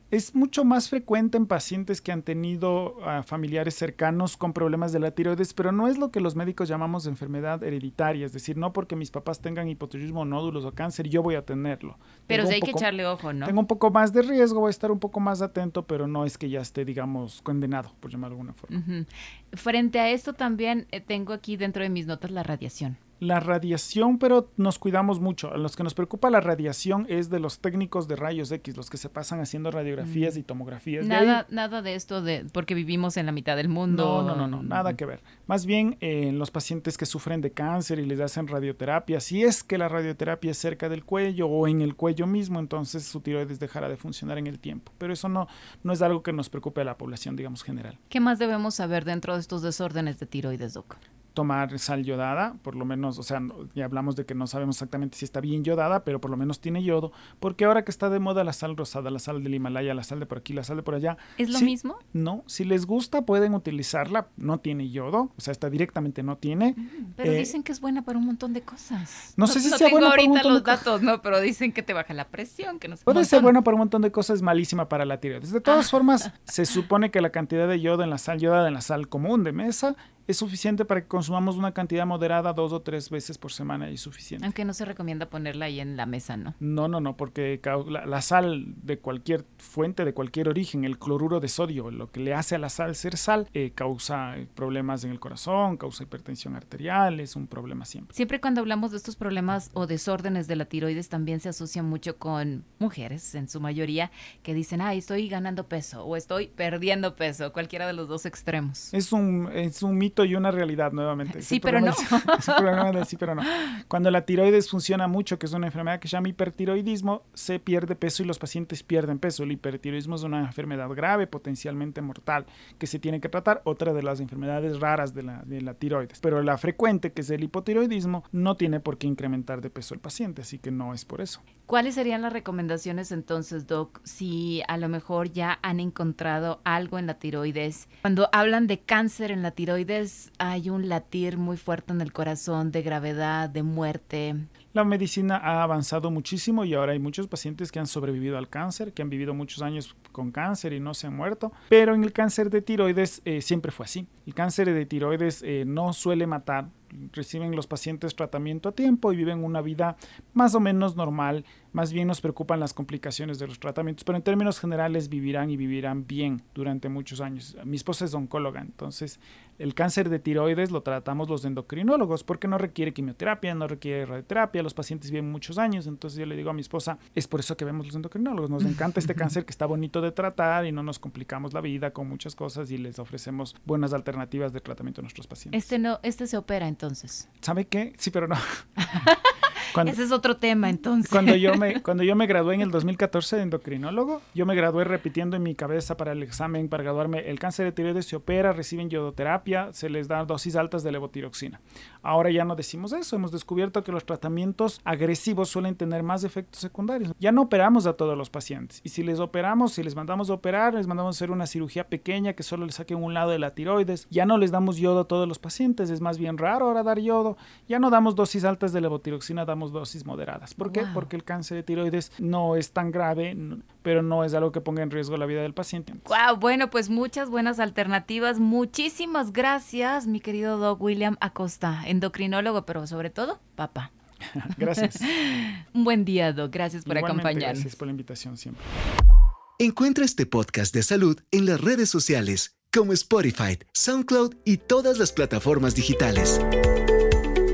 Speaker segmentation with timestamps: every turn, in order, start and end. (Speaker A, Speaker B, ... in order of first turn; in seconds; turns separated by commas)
Speaker A: 0.1-12.9, Speaker B: 12.3-13.6, Speaker A: 13.4-18.8, Speaker B: 18.7-23.0, Speaker A: 23.2-31.4, Speaker B: 30.0-30.4, Speaker B: 31.0-35.0, Speaker A: 33.9-48.0, Speaker B: 48.1-51.0, Speaker A: 51.3-67.5, Speaker B: 61.4-62.0, Speaker B: 66.8-73.5, Speaker A: 69.4-70.9, Speaker A: 73.1-84.5, Speaker B: 84.4-86.5, Speaker A: 86.6-98.1, Speaker B: 98.1-108.9, Speaker A: 108.9-131.4, Speaker B: 111.3-112.9, Speaker B: 131.7-144.5, Speaker A: 144.7-185.7, Speaker B: 185.5-187.3, Speaker A: 187.4-188.4, Speaker B: 188.8-191.8, Speaker A: 189.7-190.0, Speaker A: 191.1-226.2, Speaker B: 220.6-221.1, Speaker B: 226.1-233.9, Speaker A: 234.3-235.1, Speaker B: 234.7-237.7, Speaker A: 236.8-238.6, Speaker C: 239.6-246.4